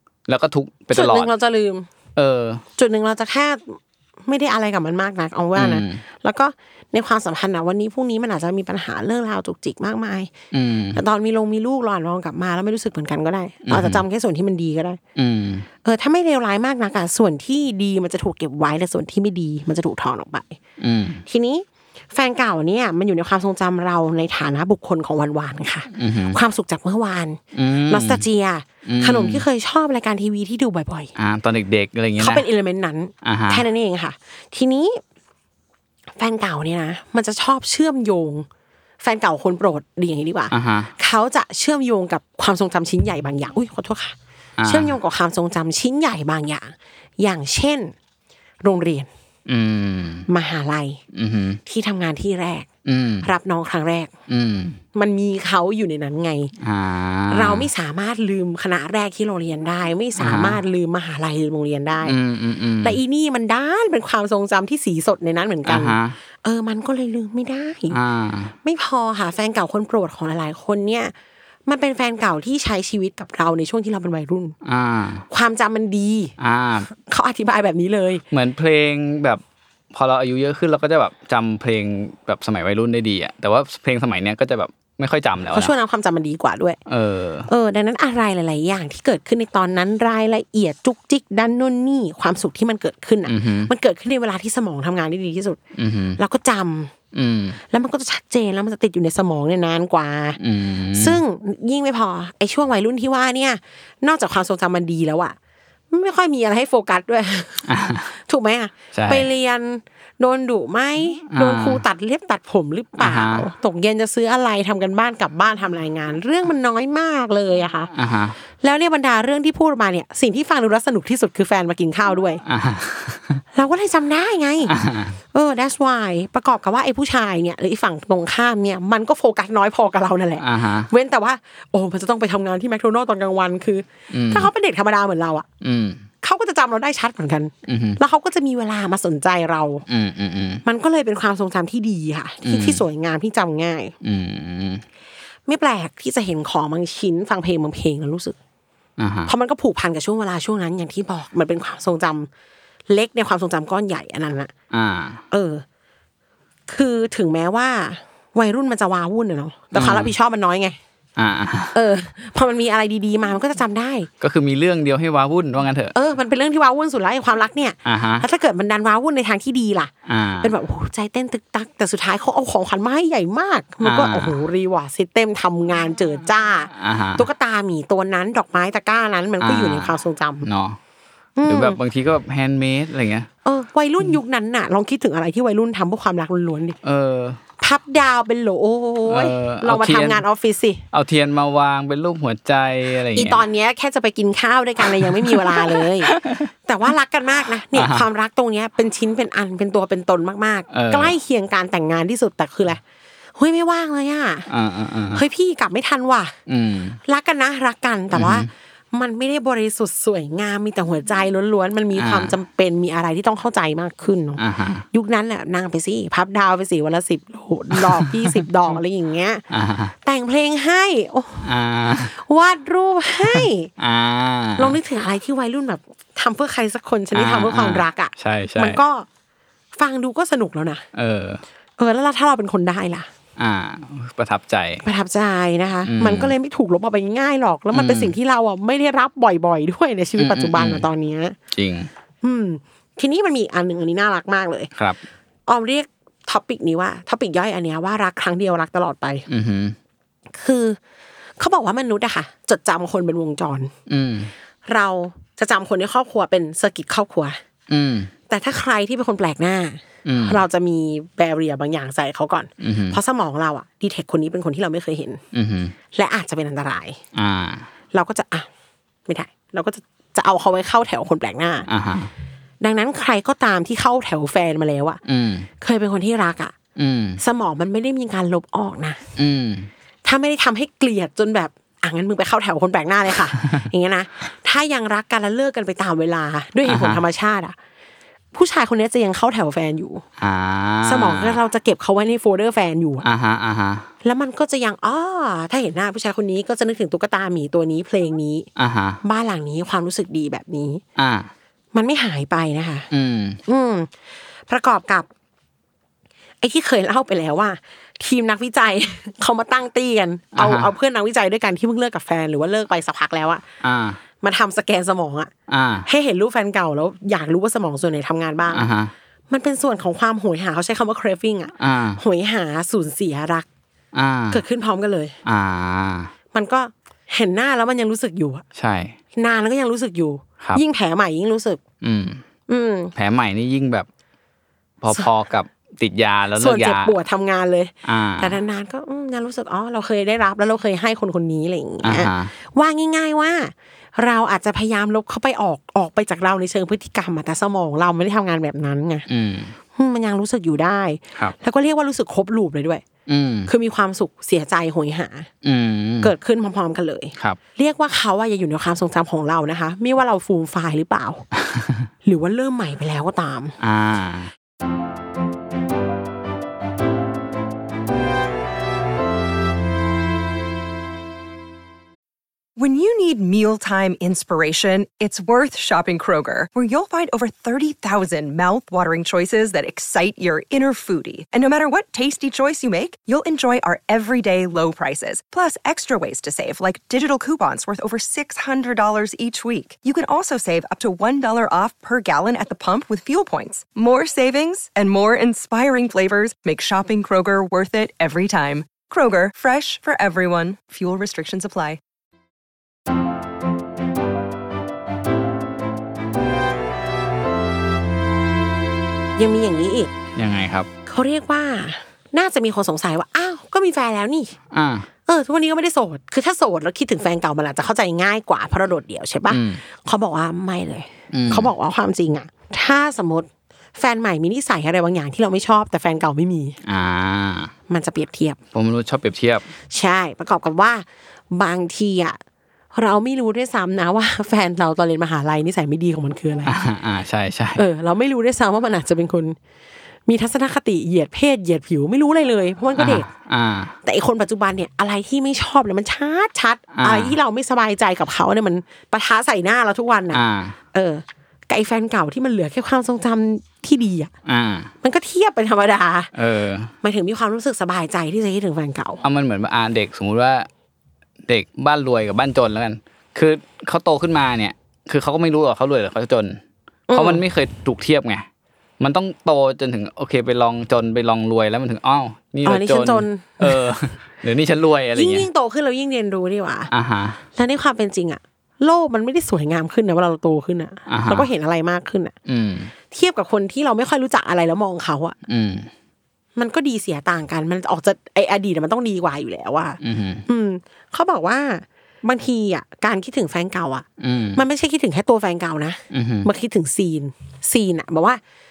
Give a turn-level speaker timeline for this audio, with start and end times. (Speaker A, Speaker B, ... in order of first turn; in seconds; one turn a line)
Speaker A: 0.3-1.3
Speaker B: 0.9-1.9
Speaker A: 2.2-2.6
Speaker B: 2.8-10.3
Speaker A: 5.6-6.0
Speaker A: 10.5-11.0
Speaker B: 10.9-15.0
Speaker A: 13.7-14.0
Speaker A: 15.2-15.7
Speaker B: 15.8-20.6
Speaker A: 20.8-21.2
Speaker B: 21.3-31.1
Speaker A: 25.9-26.4
Speaker A: 27.6-28.2
Speaker A: 28.9-29.4
Speaker A: 31.2-32.5
Speaker B: 32.2-35.0
Speaker A: 33.2-33.7
Speaker B: 36.2-38.5
Speaker B: 39.0-47.9
Speaker A: 40.5-40.9
Speaker A: 44.6-45.0
Speaker B: 48.6-49.1
Speaker A: 49.5-50.3
Speaker B: 50.3-51.0
Speaker A: 51.1-51.6
Speaker B: 51.6-52.7
Speaker A: 52.9-53.3
Speaker B: 53.2-54.1
Speaker A: 54.3-54.8
Speaker B: 54.9-56.5
Speaker A: 56.6-57.7
Speaker B: 57.3-62.1
Speaker A: 60.2-60.6
Speaker A: 62.0-63.0
Speaker B: 62.8-68.0
Speaker A: 65.7-66.2
Speaker A: 67.9-68.5
Speaker B: 68.6-71.1
Speaker B: 71.7-74.5
Speaker A: 74.6-75.3
Speaker B: 75.3-76.3
Speaker A: 76.4-76.9
Speaker B: 76.9-78.2
Speaker A: 78.3-79.4
Speaker A: 79.9-85.7
Speaker B: 85.5-86.8
Speaker A: 86.9-87.5
Speaker B: 87.5-95.6
Speaker A: 93.3-93.7
Speaker A: 95.8-96.2
Speaker B: 96.2-96.9
Speaker A: 97.1-97.6
Speaker B: 97.7-100.4
Speaker A: 100.4-101.2
Speaker B: 101.0-105.4
Speaker B: 105.9-117.9
Speaker A: 107.7-108.1
Speaker A: 108.9-109.3
Speaker A: 111.3-111.8
Speaker A: 113.0-113.5
Speaker A: 117.9-118.4
Speaker B: 118.6-122.4
Speaker A: 122.5-123.4
Speaker B: 123.5-124.7
Speaker A: 124.7-125.2
Speaker B: 125.3-135.5
Speaker A: 130.4-130.9
Speaker A: 134.1-134.5
Speaker A: 135.6-136.0
Speaker B: 136.2-139.8
Speaker A: 137.7-138.0
Speaker A: 139.9-140.6
Speaker B: 140.6-143.9
Speaker A: 142.4-142.8
Speaker A: 144.0-144.8
Speaker B: 145.5-148.4
Speaker A: 149.0-149.3
Speaker B: 149.3-152.3
Speaker B: 152.9-154.5
Speaker A: 154.7-155.2
Speaker B: 155.3-155.6
Speaker B: 156.7-160.8
Speaker A: 159.7-160.1
Speaker A: 161.2-161.8
Speaker B: 161.7-164.1
Speaker A: 164.2-165.9
Speaker B: 165.9-169.9
Speaker A: 167.8-168.2
Speaker A: 170.1-170.5
Speaker B: 170.4-180.5
Speaker A: 173.8-174.3
Speaker A: 176.7-177.3
Speaker A: 179.4-180.8
Speaker B: 181.4-181.8
Speaker A: 181.4-183.3
Speaker B: 183.4-186.8
Speaker A: 186.8-187.4
Speaker B: 187.6-190.8
Speaker A: 189.1-190.2
Speaker A: 190.9-193.4
Speaker B: 193.1-196.1
Speaker A: 194.9-196.5
Speaker B: 196.7-202.8
Speaker A: 197.7-198.1
Speaker A: 200.7-201.1
Speaker B: 203.4-204.5
Speaker A: 204.5-205.2
Speaker B: 205.1-206.3
Speaker A: 206.5-207.0
Speaker B: 207.1-219.4
Speaker A: 208.1-208.5
Speaker A: 212.0-212.3
Speaker A: 214.4-214.8
Speaker A: 217.7-218.4
Speaker A: 219.5-219.9
Speaker B: 220.0-221.5
Speaker A: 221.4-222.1
Speaker B: 222.1-223.7
Speaker A: 223.2-224.8
Speaker B: 224.6-229.1
Speaker A: 227.1-228.8
Speaker B: 229.8-230.8
Speaker A: 230.9-231.4
Speaker B: 231.8-233.1
Speaker A: 233.4-234.8
Speaker B: 234.8-241.4
Speaker A: 235.9-236.3
Speaker A: 237.7-238.2
Speaker A: 240.2-240.9
Speaker A: 241.5-241.9
Speaker B: 242.2-244.7
Speaker A: 244.8-245.0
Speaker B: 245.5-249.2
Speaker A: 249.3-249.8
Speaker B: 250.3-250.8
Speaker B: 251.4-253.7
Speaker A: 253.9-254.3
Speaker B: 254.7-257.4
Speaker A: 257.7-258.1
Speaker B: 258.3-265.2
Speaker A: 260.1-260.4
Speaker A: 262.6-263.0
Speaker A: 265.3-265.8
Speaker B: 265.9-267.0
Speaker A: 267.1-267.7
Speaker B: 267.9-268.5
Speaker B: 269.1-271.7
Speaker A: 271.7-272.1
Speaker B: 272.6-275.0
Speaker A: 275.1-275.5
Speaker B: 275.6-276.6
Speaker A: 276.8-277.2
Speaker B: 277.2-279.0
Speaker A: 279.2-279.7
Speaker B: 280.1-287.6
Speaker A: 286.6-287.0
Speaker B: 288.3-290.0
Speaker A: 290.2-291.4
Speaker B: 290.9-293.1
Speaker A: 293.0-293.9
Speaker B: 294.0-298.5
Speaker A: 298.6-299.0
Speaker B: 299.0-300.8
Speaker A: 301.0-301.3
Speaker B: 301.7-302.9
Speaker A: 302.9-303.4
Speaker B: 303.5-303.9
Speaker B: 304.5-305.1
Speaker B: 306.4-313.4
Speaker A: 310.4-310.7
Speaker A: 313.6-314.0
Speaker B: 314.2-315.3
Speaker A: 315.5-315.9
Speaker B: 315.9-318.6
Speaker A: 318.5-318.9
Speaker B: 319.3-323.5
Speaker A: 321.6-322.0
Speaker A: 323.9-324.4
Speaker B: 324.3-325.1
Speaker A: 325.3-326.1
Speaker B: 326.3-328.4
Speaker A: 328.6-329.0
Speaker B: 329.1-331.6
Speaker A: 331.8-332.2
Speaker B: 332.5-332.9
Speaker A: 332.9-333.9
Speaker A: 334.8-337.0
Speaker B: 336.4-349.1
Speaker A: 337.9-338.4
Speaker A: 341.8-342.3
Speaker A: 349.1-349.5
Speaker B: 349.8-352.8
Speaker A: 353.1-353.5
Speaker B: 353.5-355.3
Speaker A: 355.4-356.1
Speaker B: 356.0-361.2
Speaker B: 362.0-363.6
Speaker A: 363.6-364.3
Speaker C: 372.6-401.8
Speaker B: 409.2-409.9
Speaker A: 410.1-410.7
Speaker B: 410.9-414.4
Speaker A: 414.5-414.9
Speaker B: 415.1-426.6
Speaker A: 419.3-419.6
Speaker A: 421.1-421.5
Speaker A: 426.6-427.5
Speaker B: 427.7-428.4
Speaker A: 428.5-429.5
Speaker B: 429.7-432.2
Speaker B: 432.7-436.6
Speaker A: 436.5-437.6
Speaker B: 437.6-439.4
Speaker B: 440.1-443.1
Speaker A: 442.8-443.7
Speaker B: 443.8-450.2
Speaker A: 446.7-447.2
Speaker A: 450.1-450.6
Speaker B: 450.7-454.1
Speaker A: 454.3-454.7
Speaker B: 454.8-456.1
Speaker A: 456.1-456.7
Speaker B: 456.8-459.0
Speaker A: 459.0-460.5
Speaker A: 461.3-466.4
Speaker B: 466.9-467.2
Speaker A: 466.9-468.3
Speaker A: 468.8-475.3
Speaker B: 472.4-473.6
Speaker B: 474.9-476.7
Speaker A: 476.7-477.2
Speaker B: 477.4-482.1
Speaker A: 480.9-481.3
Speaker A: 482.3-482.7
Speaker B: 482.9-485.2
Speaker A: 485.3-485.7
Speaker B: 486.4-498.2
Speaker A: 489.8-490.2
Speaker A: 494.0-494.4
Speaker A: 495.9-496.3